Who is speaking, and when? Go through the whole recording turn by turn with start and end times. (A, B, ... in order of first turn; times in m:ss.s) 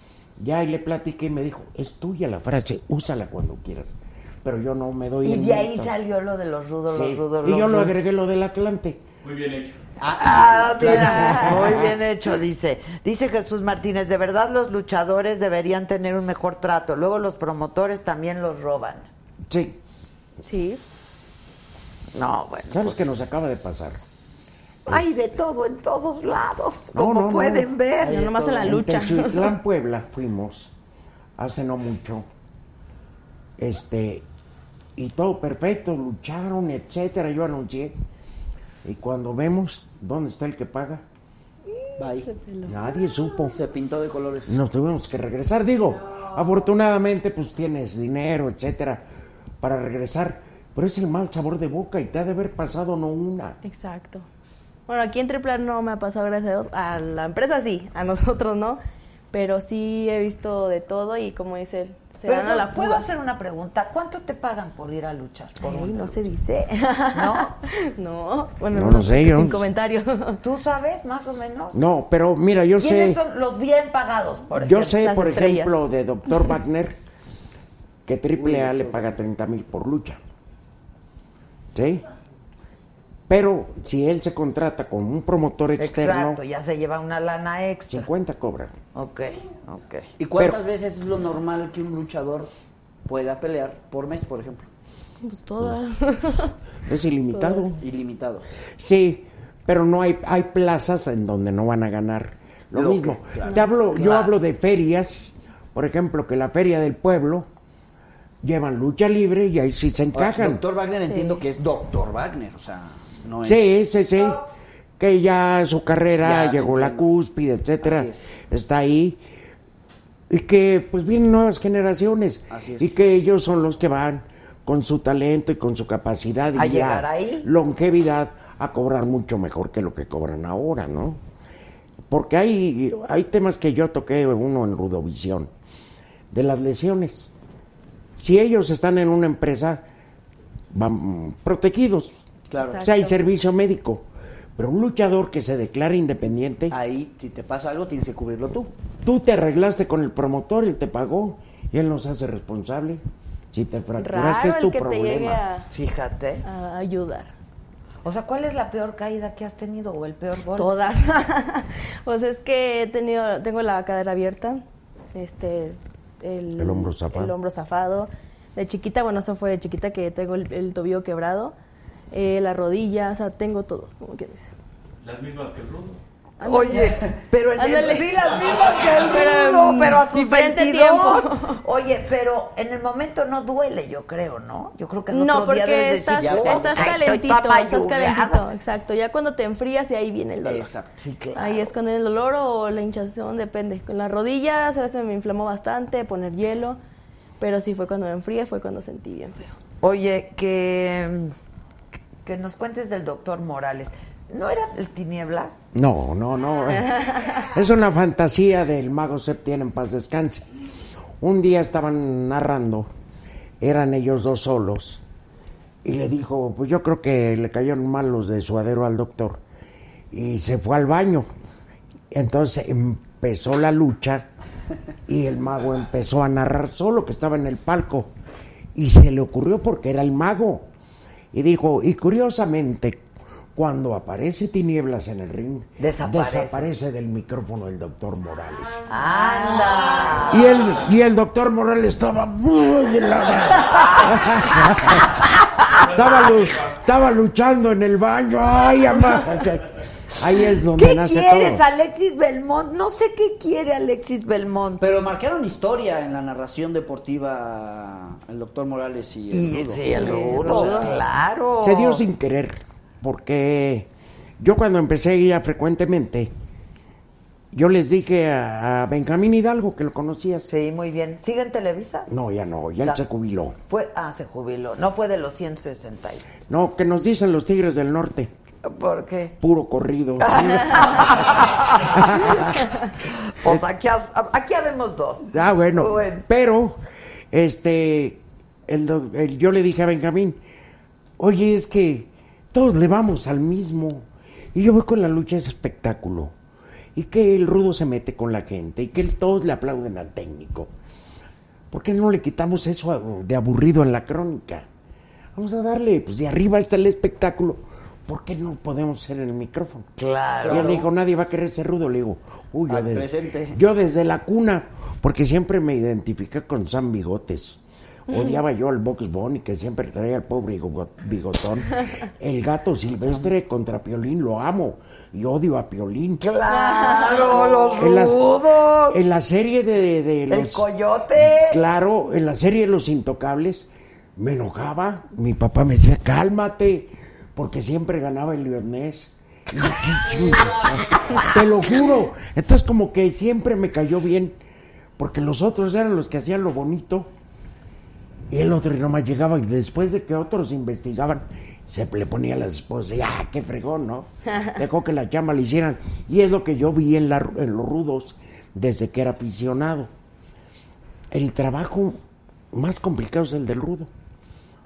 0:00.4-0:05.9 A
0:05.2-0:07.9 B
0:06.9-0:09.0 A
0:09.2-0:09.8 C
0:10.0-0:11.6 D
0:10.0-0:19.1 B
0:11.0-0:11.5 E
0:11.0-0:11.9 A
0:19.5-0:19.8 A
0:20.4-0:20.8 E
0:22.2-0:23.1 B
0:22.7-0:24.0 A
0:24.9-0:28.4 B
0:26.9-0:27.7 A
0:28.0-0:29.6 E
0:28.0-0:28.7 D
0:28.6-0:30.7 A
0:31.4-0:32.3 A
0:33.6-0:34.3 A
0:35.0-0:38.0 A
0:38.8-0:41.0 A
0:42.0-0:42.3 D
0:42.2-0:42.8 E
0:42.6-0:43.6 A
0:43.6-0:44.6 D
0:44.5-0:49.0 A
0:49.6-0:53.6 A
0:53.6-0:54.3 E
0:54.9-0:58.8 E
0:59.3-1:03.1 E
1:02.2-1:06.2 B
1:05.6-1:10.4 E
1:07.1-1:07.6 B
1:08.7-1:09.7 A
1:10.4-1:11.8 B
1:11.7-1:13.2 A
1:12.8-1:15.0 B
1:14.6-1:17.0 A
1:15.0-1:15.8 E
1:18.1-1:20.2 A
1:18.4-1:19.0 D
1:21.7-1:22.0 A
1:23.3-1:26.4 A
1:25.8-1:28.1 B
1:27.9-1:28.7 A
1:28.9-1:30.1 B
1:30.2-1:32.5 D
1:33.1-1:34.6 D
1:35.2-1:36.5 E
1:35.6-1:35.8 A
1:36.8-1:37.8 A
1:37.3-1:37.8 E
1:37.8-1:38.4 D
1:38.8-1:47.5 A
1:42.7-1:44.3 D
1:43.4-1:43.7 E
1:48.4-1:50.6 A
1:50.1-1:53.9 D
1:51.0-1:51.4 E
1:53.4-1:54.4 A
1:55.0-1:59.2 A
1:56.2-1:57.1 D
1:57.8-1:58.3 D
2:00.3-2:11.2 A
2:02.5-2:02.9 D
2:06.6-2:07.5 B
2:12.1-2:15.5 A
2:16.3-2:17.3 A
2:18.2-2:19.8 A
2:20.7-2:22.3 A
2:22.5-2:22.8 D
2:22.6-2:23.2 E
2:22.8-2:26.7 A
2:26.7-2:28.7 D
2:29.0-2:35.4 A
2:34.0-2:35.7 E
2:35.7-2:36.4 B
2:36.4-2:37.3 E
2:38.0-2:40.7 B
2:40.6-2:44.6 E
2:45.1-2:51.6 E
2:46.6-2:47.3 A
2:52.1-2:54.5 E
2:55.0-2:56.0 C
2:56.4-2:58.3 E
2:56.4-3:08.5 B
2:58.3-2:59.1 C
2:58.9-3:01.6 E
3:05.1-3:10.7 E
3:06.2-3:07.0 D
3:10.4-3:10.9 D
3:11.0-3:11.7 B
3:11.4-3:16.8 E
3:17.4-3:19.6 E
3:19.8-3:21.3 B
3:22.2-3:25.6 B
3:25.7-3:30.4 A
3:26.7-3:27.5 E
3:31.2-3:32.9 A
3:33.6-3:35.0 A
3:35.8-3:39.4 A
3:40.1-3:41.3 A
3:42.1-3:44.3 A
3:45.1-3:48.1 A
3:48.7-3:50.7 A
3:51.3-3:53.0 A
3:53.6-3:58.8 A
3:55.8-3:56.6 B
3:58.9-4:00.7 B
3:59.2-4:00.0 E
4:00.3-4:05.2 A
4:03.7-4:04.2 B
4:05.8-4:06.8 C
4:05.8-4:11.6 A
4:10.7-4:14.8 B
4:14.8-4:21.0 D
4:19.3-4:22.0 B
4:19.9-4:20.9 E
4:21.6-4:23.9 A
4:24.4-4:26.3 A
4:27.5-4:30.5 A
4:30.5-4:32.1 B
4:32.1-4:33.6 A
4:33.7-4:36.3 B
4:36.5-4:38.3 A
4:38.6-4:39.4 B
4:39.4-4:42.6 A
4:40.2-4:46.2 B
4:45.3-4:46.8 A
4:47.3-4:50.4 A
4:51.2-4:56.3 A
4:56.9-5:00.7 A
5:01.7-5:04.7 A
5:05.4-5:09.9 A
5:10.0-5:10.9 B
5:10.4-5:10.8 D
5:10.4-5:26.2 A
5:12.7-5:13.6 D
5:18.1-5:18.4 E
5:22.9-5:23.3 D
5:26.2-5:29.0 B
5:26.5-5:27.7 E
5:27.8-5:28.3 A
5:28.9-5:30.6 A
5:30.3-5:31.6 B
5:31.2-5:44.4 A
5:41.0-5:41.3 B
5:45.0-5:47.1 A
5:48.3-5:59.9 A
6:01.1-6:02.0 A
6:02.5-6:03.9 A